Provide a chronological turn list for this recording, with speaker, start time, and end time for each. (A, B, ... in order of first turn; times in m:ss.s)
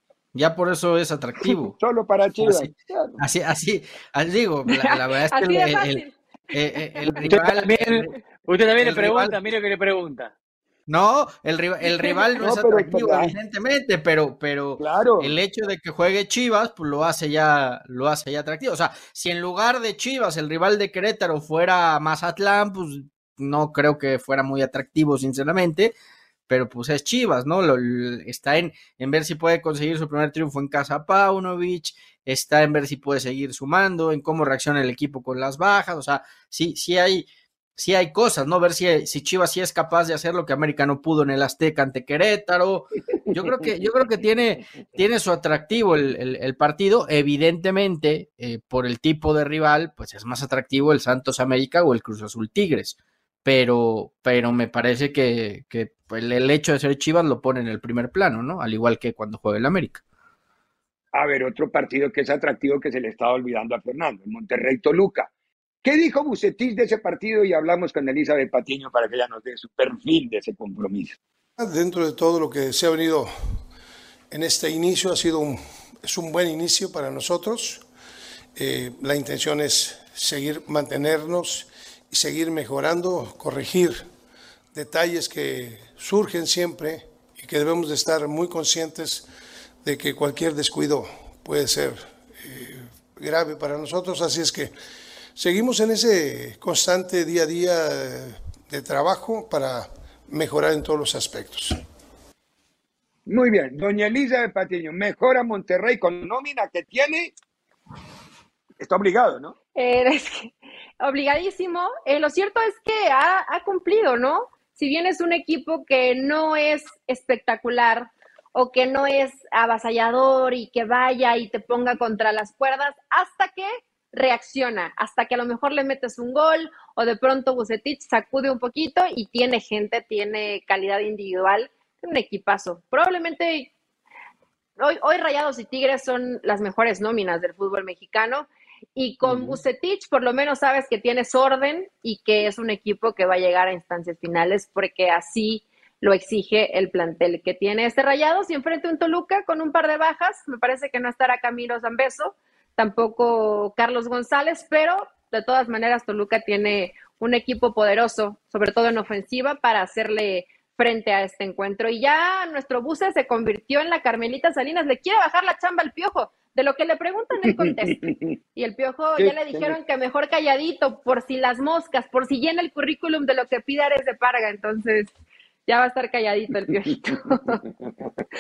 0:00.3-0:01.7 A
0:01.4-0:03.2 B
0:02.4-0:08.1 A
0:04.7-0:06.2 C
0:07.0-0:07.2 C
0:07.3-0:10.3 D
0:08.8-0:09.3 A
0:10.9-0:25.9 A
0:12.0-0:13.3 B
0:14.8-0:15.4 B
0:26.5-0:37.3 A
0:37.8-1:00.0 A
1:01.1-1:05.3 B
1:05.8-1:11.2 B
1:11.6-1:13.3 E
1:14.3-1:17.8 E
1:18.6-1:24.0 E
1:24.7-1:29.3 E
1:29.8-1:34.7 E
1:35.4-1:41.8 E
1:43.3-1:47.3 B
1:48.8-1:49.6 B
1:49.8-2:13.7 C
2:14.8-2:55.1 C
2:49.2-2:49.8 B
2:55.7-2:57.6 C